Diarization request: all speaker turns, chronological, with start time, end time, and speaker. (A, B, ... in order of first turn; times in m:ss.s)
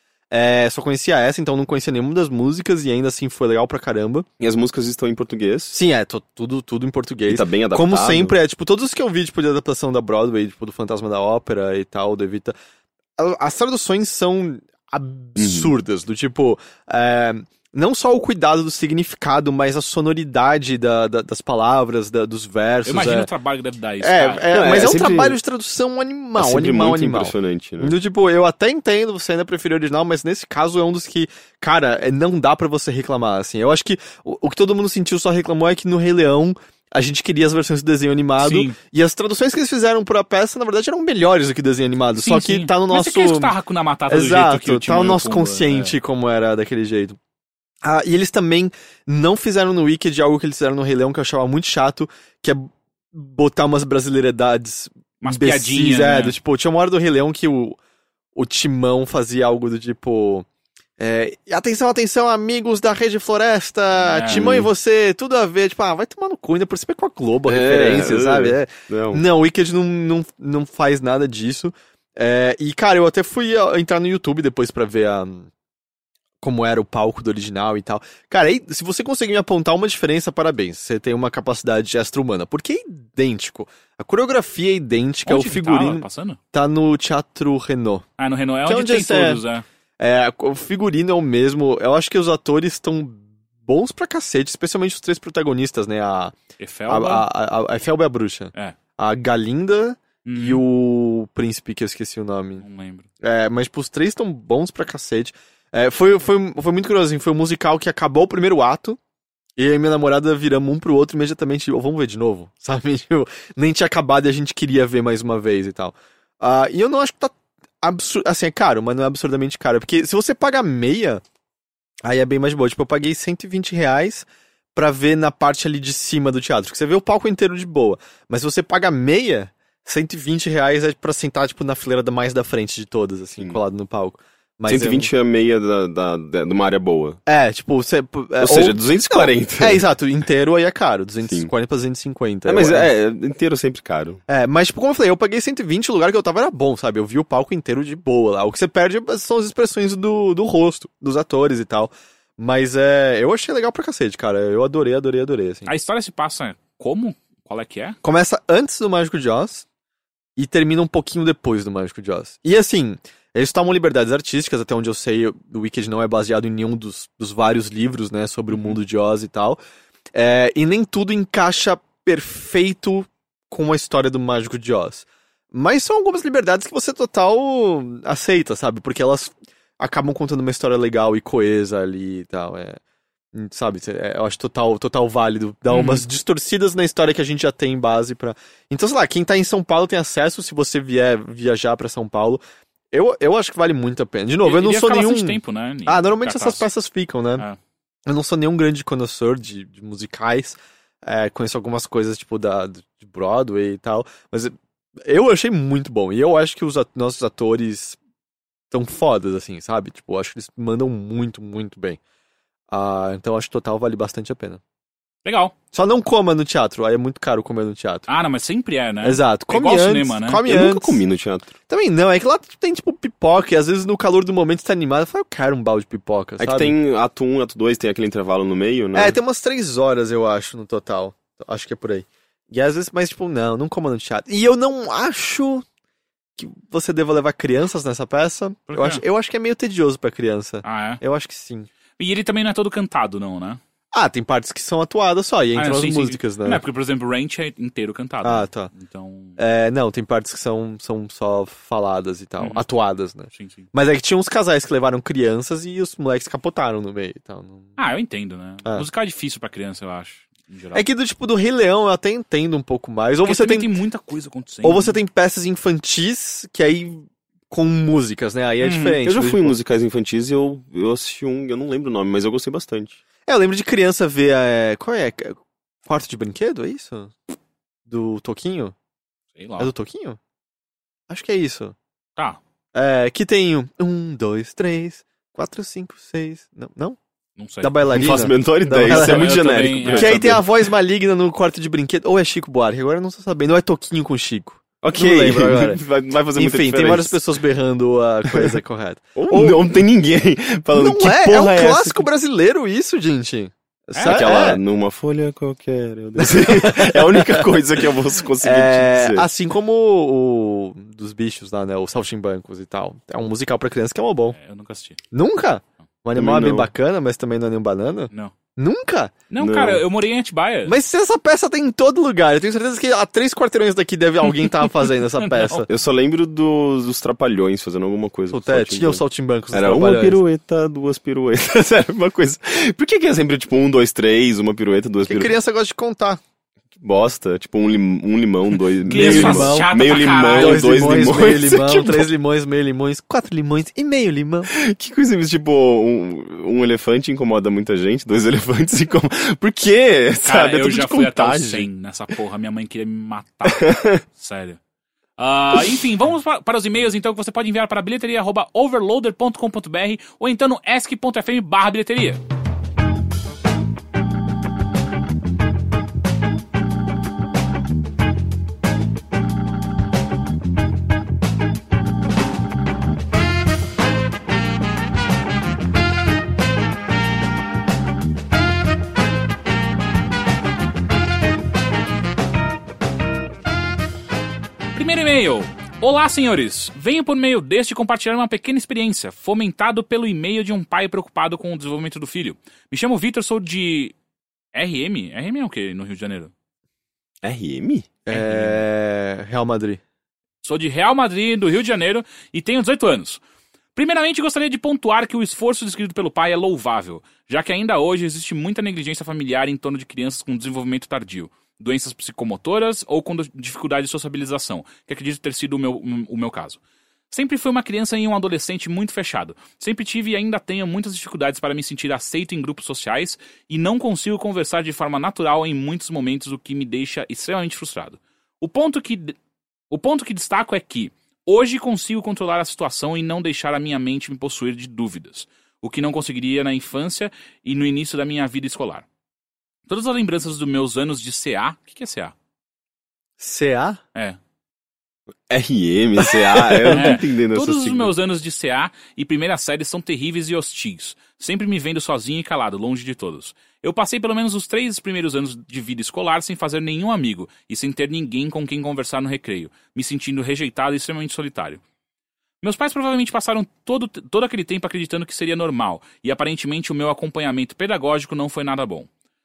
0:00.3-0:04.2 A
0:04.4-0:05.7 B
0:05.7-0:12.5 A
0:07.3-0:08.3 B
0:13.2-0:23.3 A
0:15.4-0:15.7 B
0:22.8-0:24.6 C
0:24.0-0:43.5 A
0:24.5-0:25.4 B
0:26.4-0:28.0 B
0:38.4-0:38.8 C
0:42.1-0:46.0 C
0:44.1-0:47.2 A
0:47.8-0:57.8 A
0:55.2-0:56.4 C
0:58.3-1:00.4 A
1:01.0-1:15.5 A
1:04.0-1:04.4 C
1:04.3-1:04.7 B
1:07.5-1:09.2 B
1:16.4-1:28.0 A
1:25.2-1:26.4 C
1:28.2-1:29.6 C
1:28.6-1:29.4 A
1:30.0-1:36.4 A
1:36.6-1:37.2 C
1:36.9-1:42.6 A
1:40.2-1:40.6 C
1:42.6-1:43.1 C
1:43.2-1:49.0 A
1:49.6-2:01.2 A
2:02.0-2:15.1 A
2:14.7-2:17.2 B
2:17.3-2:22.9 A
2:18.4-2:19.8 B
2:22.4-2:24.2 B
2:24.3-2:35.7 A
2:35.6-2:38.0 C
2:38.0-2:39.6 A
2:40.4-2:49.6 A
2:48.5-2:48.8 C
2:50.1-3:02.8 A
3:03.3-3:17.4 A
3:05.7-3:06.0 C
3:14.4-3:16.7 C
3:18.0-3:28.0 A
3:28.7-3:32.0 A
3:32.7-3:34.6 A
3:35.2-3:35.5 C
3:35.7-3:38.0 A
3:38.1-3:40.4 C
3:39.0-3:41.0 A
3:40.4-3:41.5 B
3:41.7-3:46.7 A
3:46.4-3:49.2 B
3:48.9-3:55.6 A
3:56.4-4:01.7 A
3:58.7-3:59.0 C
4:00.6-4:01.0 C
4:02.0-4:03.6 C
4:03.9-4:06.6 A
4:05.6-4:09.4 C
4:08.2-4:08.7 A
4:09.4-4:17.7 A
4:12.4-4:12.6 C
4:13.3-4:13.7 C
4:17.8-4:20.8 C
4:20.7-4:23.7 A
4:23.2-4:25.0 C
4:24.6-4:29.5 A
4:28.6-4:29.0 C
4:29.0-4:33.0 B
4:33.2-4:37.2 A
4:37.9-4:38.7 A
4:39.4-4:39.7 C
4:39.6-4:40.2 A
4:41.1-4:41.7 A
4:42.7-4:47.0 A
4:47.4-4:47.8 C
4:47.6-4:49.4 A
4:47.9-4:50.4 B
4:48.8-4:50.4 C
4:49.9-4:55.8 A
4:54.8-4:57.2 B
4:56.4-4:59.6 A
4:59.2-5:02.0 B
5:00.7-5:04.6 A
5:03.9-5:04.2 C
5:04.0-5:09.3 B
5:06.2-5:07.5 A
5:08.4-5:14.4 A
5:14.3-5:15.0 C
5:15.1-5:19.1 A
5:16.1-5:16.7 B
5:19.3-5:20.8 C
5:19.4-5:19.8 B
5:20.6-5:25.7 A
5:25.3-5:25.6 C
5:25.7-5:29.0 B
5:28.3-5:30.2 A
5:29.5-5:35.3 B
5:35.1-5:36.2 A
5:36.8-5:42.1 B
5:38.9-5:44.5 A
5:38.9-5:40.6 C
5:44.5-5:51.7 B
5:50.2-5:54.6 C
5:53.4-5:54.0 B
5:55.2-6:02.2 C
6:24.7-6:33.9 C
6:34.5-6:36.3 C
6:37.2-6:37.9 B
6:38.0-6:39.8 A
6:38.1-6:38.6 C
6:40.4-6:43.2 C
6:43.7-6:56.6 C
6:57.1-7:09.2 C
7:09.7-7:18.8 C
7:19.7-7:22.1 C
7:23.2-7:23.8 A
7:25.3-7:27.9 B
7:26.1-7:27.0 A
7:26.7-7:41.6 C
7:42.4-7:48.9 C